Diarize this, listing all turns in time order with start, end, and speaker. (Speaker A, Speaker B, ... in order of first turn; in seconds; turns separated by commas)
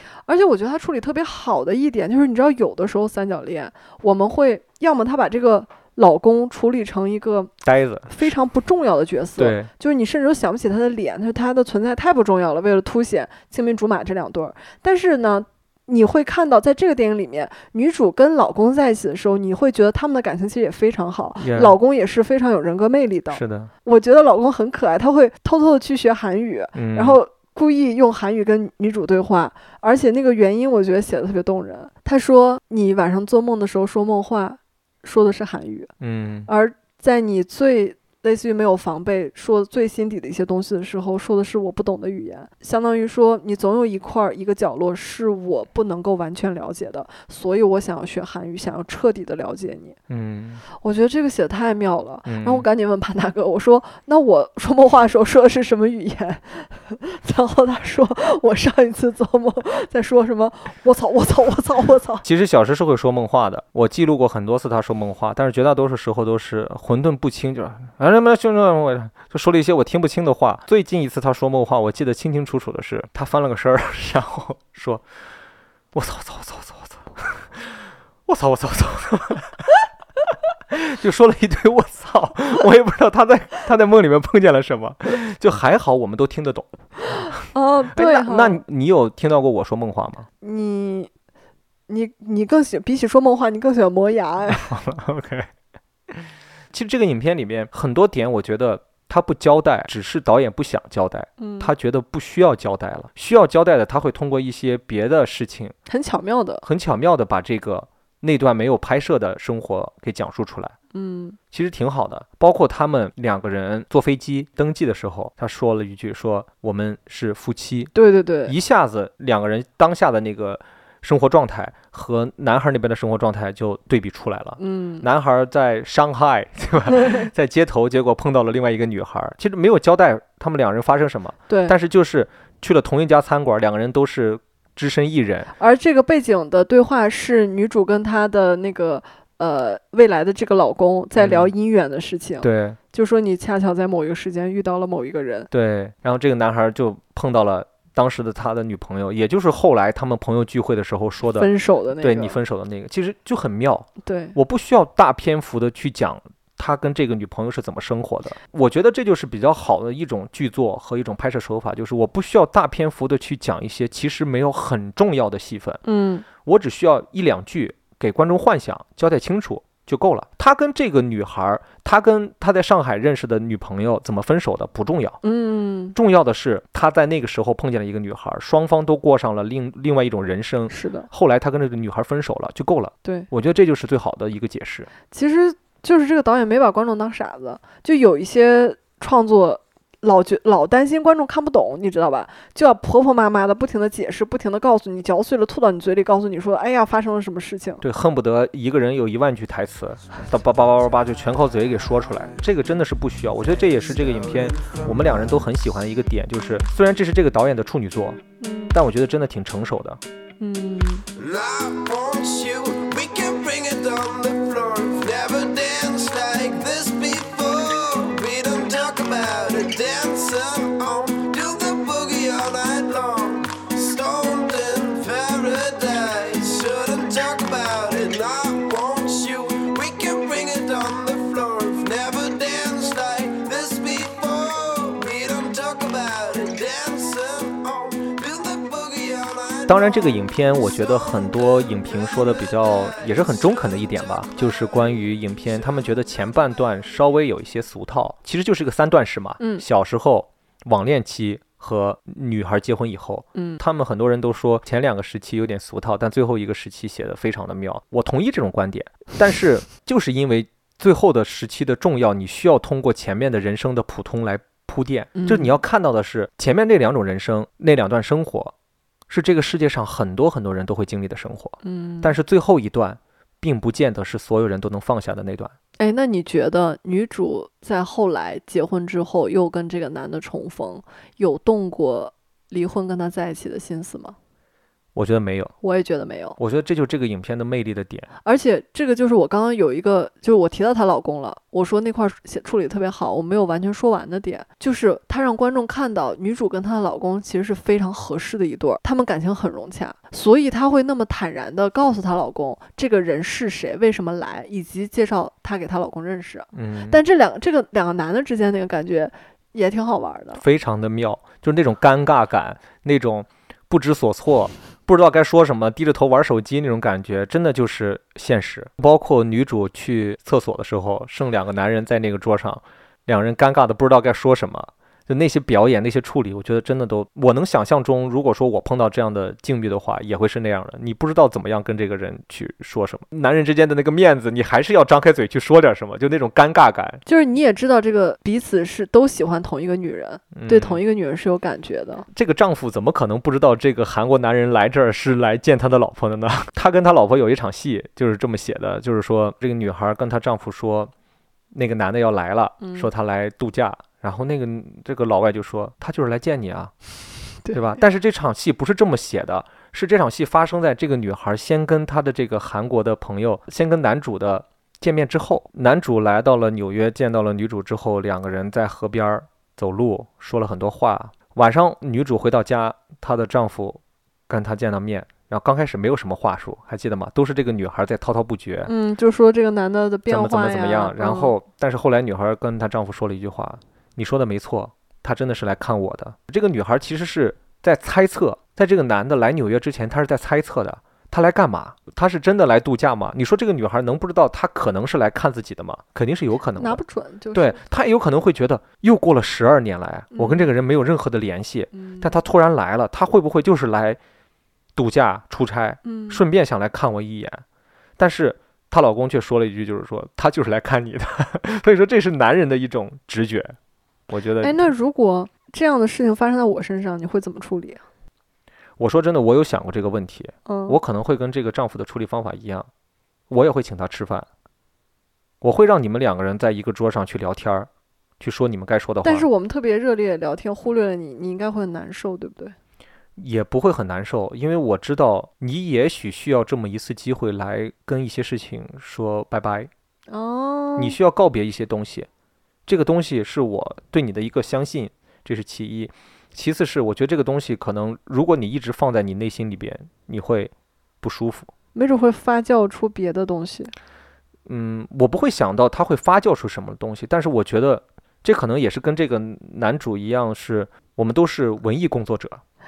Speaker A: 0.3-7.5, Speaker B: 7.6-8.3, Speaker A: 8.1-35.9, Speaker B: 9.4-9.7, Speaker B: 21.4-21.8, Speaker B: 23.3-23.7, Speaker B: 26.7-27.2, Speaker B: 36.0-36.5, Speaker A: 36.5-50.0, Speaker B: 50.1-50.6, Speaker A: 50.8-62.2, Speaker B: 52.2-52.6, Speaker B: 62.2-75.0, Speaker B: 75.9-79.7, Speaker B: 80.7-87.3, Speaker A: 87.3-88.6, Speaker B: 87.9-90.3, Speaker A: 90.4-91.1, Speaker A: 91.9-94.7, Speaker B: 94.5-95.5, Speaker B: 96.1-105.8, Speaker A: 101.4-101.7, Speaker A: 105.9-106.6, Speaker B: 106.6-110.8, Speaker A: 110.9-111.4, Speaker B: 111.5-117.9, Speaker A: 117.9-118.5, Speaker B: 118.5-135.5, Speaker A: 124.6-125.0, Speaker A: 131.5-131.8, Speaker A: 135.6-145.5, Speaker B: 141.2-141.5, Speaker B: 142.4-142.8, Speaker B: 145.5-165.8, Speaker A: 151.4-152.4, Speaker A: 154.0-154.3, Speaker A: 165.8-166.2, Speaker B: 166.4-175.2, Speaker A: 175.2-175.9, Speaker B: 175.9-184.9, Speaker A: 180.7-181.1, Speaker A: 183.0-183.3, Speaker A: 185.1-197.8, Speaker B: 197.8-208.2, Speaker A: 208.4-208.8, Speaker B: 208.7-210.0, Speaker A: 210.4-211.0, Speaker C: 211.1-240.1, Speaker B: 239.7-268.5, Speaker C: 241.9-243.8, Speaker A: 249.4-249.6, Speaker A: 253.3-253.6, Speaker A: 265.1-265.6, Speaker B: 269.1-275.5, Speaker A: 271.6-272.1, Speaker A: 275.8-284.1, Speaker B: 284.9-285.5, Speaker A: 285.6-286.4, Speaker B: 286.4-288.1, Speaker A: 288.2-310.4, Speaker B: 306.5-307.0, Speaker B: 310.4-337.0, Speaker A: 337.1-342.1, Speaker B: 340.3-340.8, Speaker B: 342.1-350.9, Speaker B: 351.5-356.7, Speaker A: 352.6-352.9, Speaker B: 357.5-378.7, Speaker A: 378.6-381.3, Speaker B: 380.1-396.8, Speaker A: 396.6-397.7, Speaker B: 397.3-404.0, Speaker A: 400.1-400.5, Speaker A: 401.7-402.2, Speaker B: 404.8-407.4, Speaker A: 405.8-406.2, Speaker B: 408.0-413.6, Speaker B: 414.1-414.7, Speaker A: 414.4-417.8, Speaker B: 418.8-422.7, Speaker A: 420.5-420.8, Speaker B: 423.3-424.3, Speaker B: 425.4-427.7, Speaker B: 428.2-429.3, Speaker A: 429.0-432.5, Speaker B: 433.2-439.7, Speaker A: 440.1-441.0, Speaker B: 440.8-442.1, Speaker B: 442.7-451.5, Speaker A: 451.7-453.7, Speaker B: 454.4-462.4